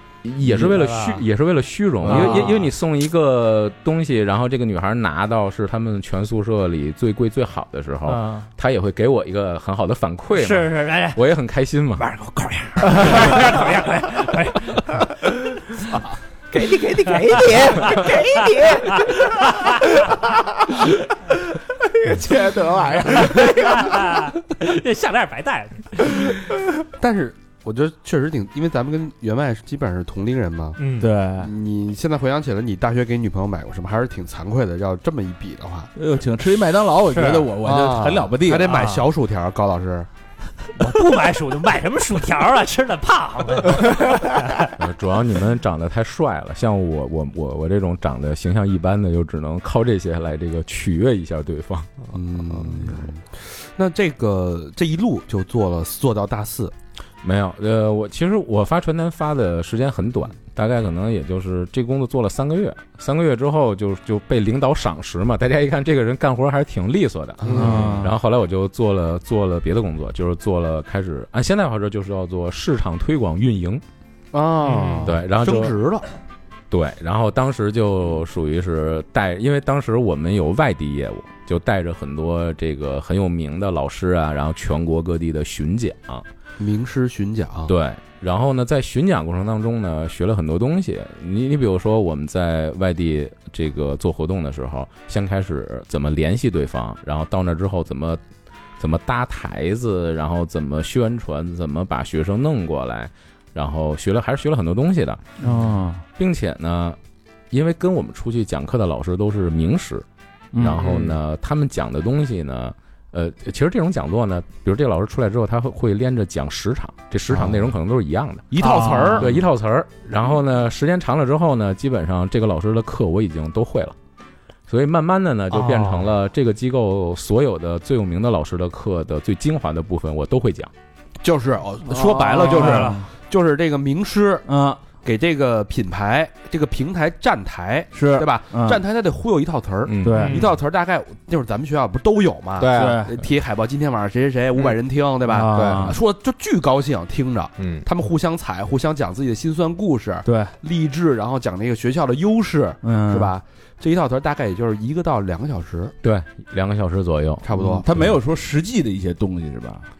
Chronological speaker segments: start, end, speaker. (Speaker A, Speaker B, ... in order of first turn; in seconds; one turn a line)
Speaker A: 0.2-12.1
Speaker B: 0.4-1.3
Speaker B: 2.0-2.7
Speaker C: 2.0-2.5
Speaker B: 8.1-8.5
Speaker B: 10.3-11.2
Speaker B: 12.0-16.0
Speaker D: 16.5-20.8
Speaker B: 16.8-20.1
Speaker D: 21.8-24.0
Speaker B: 23.0-26.4
Speaker E: 27.0-30.8
Speaker B: 30.8-31.1
Speaker C: 31.0-31.5
Speaker E: 31.4-35.9
Speaker C: 36.0-38.8
Speaker B: 37.1-37.5
Speaker E: 37.6-40.1
Speaker B: 38.6-39.1
Speaker B: 40.8-44.7
Speaker A: 44.8-51.9
Speaker E: 52.1-56.7
Speaker A: 57.2-73.8
Speaker E: 67.4-68.0
Speaker C: 67.5-68.2
Speaker E: 74.3-76.1
Speaker B: 74.7-75.1
Speaker A: 75.0-75.8
Speaker A: 76.7-86.2
Speaker E: 86.6-87.7
Speaker A: 87.7-98.2
Speaker A: 98.8-105.2
Speaker C: 105.4-106.0
Speaker A: 106.2-107.0
Speaker A: 107.5-110.0
Speaker C: 110.5-111.1
Speaker A: 110.6-118.6
Speaker E: 117.3-117.6
Speaker E: 118.5-119.4
Speaker B: 118.6-119.3
Speaker A: 119.2-124.0
Speaker A: 124.7-130.7
Speaker B: 125.5-126.1
Speaker E: 131.2-134.5
Speaker C: 131.8-133.1
Speaker B: 132.3-133.0
Speaker C: 134.5-134.8
Speaker E: 135.0-155.9
Speaker C: 137.9-138.8
Speaker A: 139.9-140.3
Speaker C: 140.0-140.5
Speaker B: 140.2-140.5
Speaker D: 142.6-143.1
Speaker C: 142.7-143.2
Speaker C: 145.3-146.0
Speaker D: 145.5-146.0
Speaker D: 147.6-147.9
Speaker C: 150.2-150.6
Speaker C: 152.8-153.3
Speaker A: 156.0-158.1
Speaker E: 157.4-157.9
Speaker C: 157.6-159.9